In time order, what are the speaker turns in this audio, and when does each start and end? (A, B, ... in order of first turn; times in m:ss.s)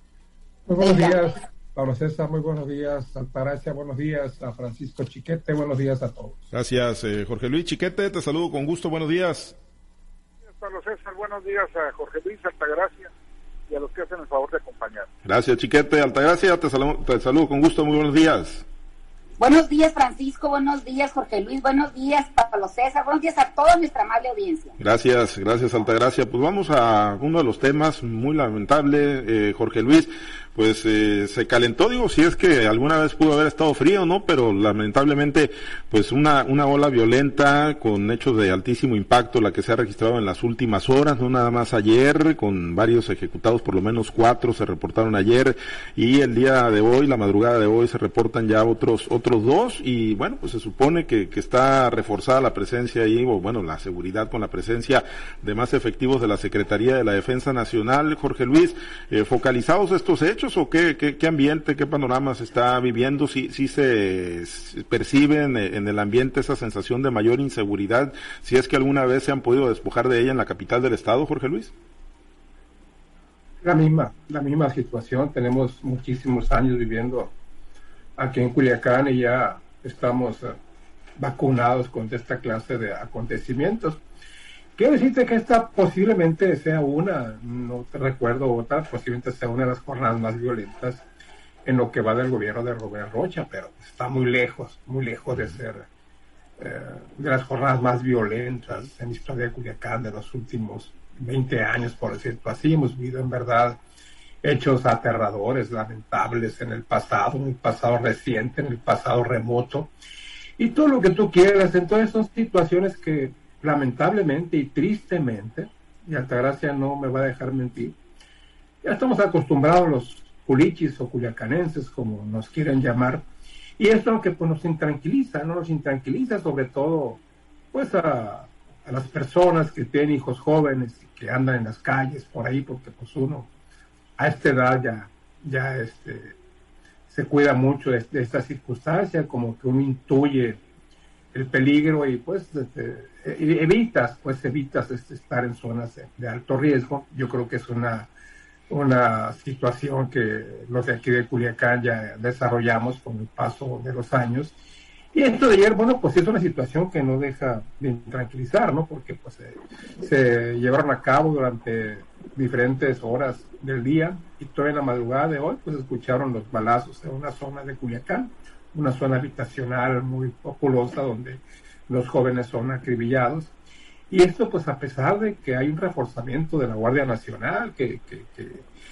0:00.7-0:06.4 A
0:00.8-0:01.2 B
0:06.5-0:09.6 C
0:10.4-0:13.1 D
0:13.7-0:15.1 D
0:15.2-0:18.6 C
0:19.4-0:24.7 B
0:24.8-1:11.7 C
1:13.6-1:17.3 A
1:18.2-1:20.6 A
1:21.2-1:24.0 A
1:24.7-1:31.0 A
1:31.6-1:35.9 A
1:36.6-1:43.8 A
1:44.4-1:49.9 A
1:50.6-1:58.0 A
1:58.8-2:03.3 A
2:03.8-2:07.2 A
2:07.7-2:13.5 A
2:14.2-2:16.3 A
2:17.1-2:20.6 A
2:21.3-2:28.1 A
2:28.7-2:34.6 A
2:35.1-2:53.5 A
2:54.1-2:58.6 A